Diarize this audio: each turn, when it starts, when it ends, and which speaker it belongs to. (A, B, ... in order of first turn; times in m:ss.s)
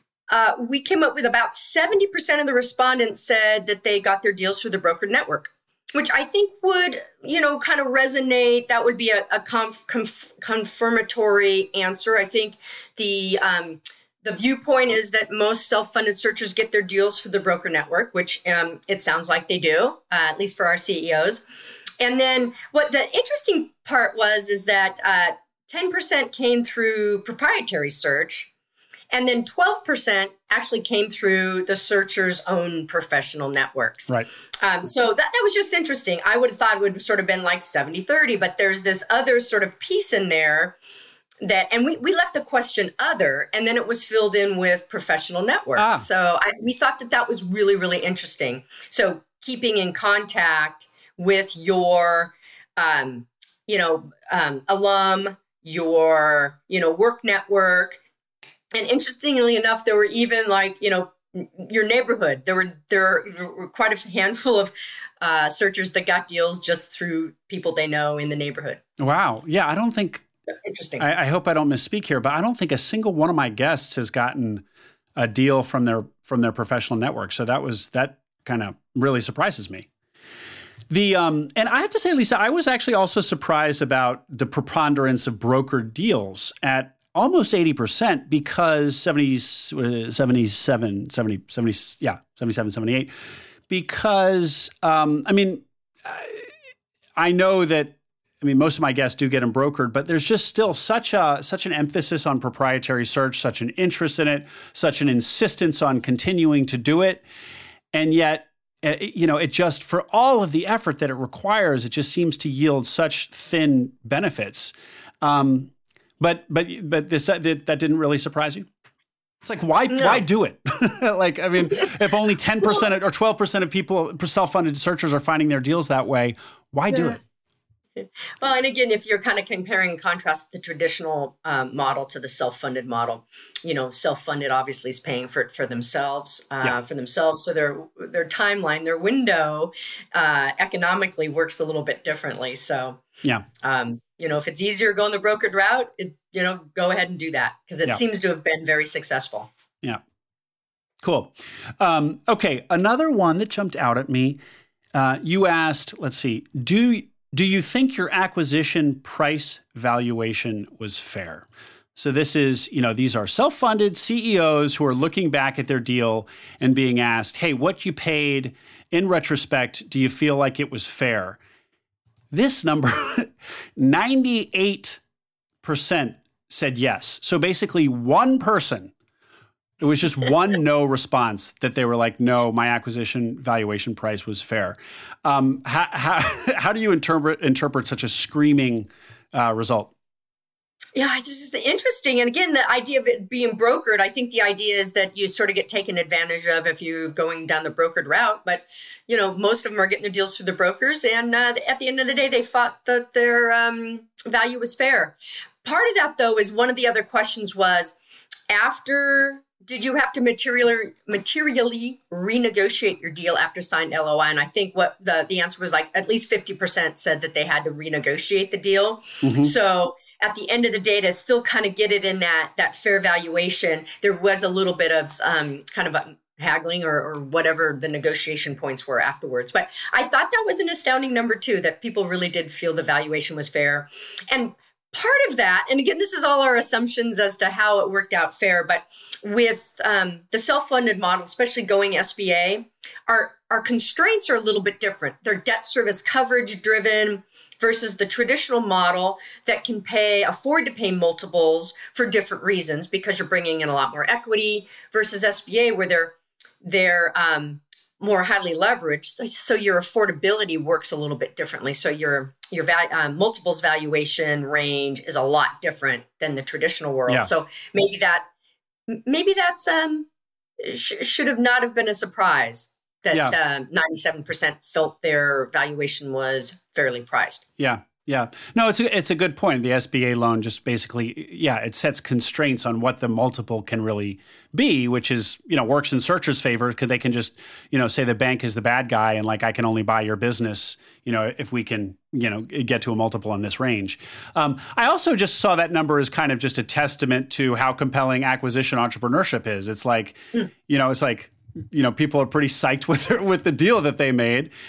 0:00.3-0:21.4 A
0:22.0-0:28.5 A
0:29.1-0:40.8 A
0:41.4-0:58.0 A
0:45.8-0:46.1 B
0:58.7-1:08.8 A
1:09.0-1:10.2 B
1:10.6-1:11.0 A
1:11.0-1:14.6 B
1:15.2-1:19.9 B
1:20.9-1:36.5 B
1:37.2-1:47.2 B
1:47.9-1:58.7 B
1:59.4-2:07.2 B
1:59.9-2:00.2 A
2:06.9-2:07.2 A
2:08.0-2:23.0 A
2:23.6-2:29.5 A
2:31.0-2:34.4 B
2:34.9-2:51.4 B
2:52.3-2:55.0 B
2:55.6-2:58.9 B
2:59.8-3:09.9 B
3:10.9-3:27.9 A
3:28.5-4:28.3 A
3:39.2-3:39.5 B
4:28.9-4:30.1 A
4:30.6-4:37.4 A
4:37.6-5:04.5 B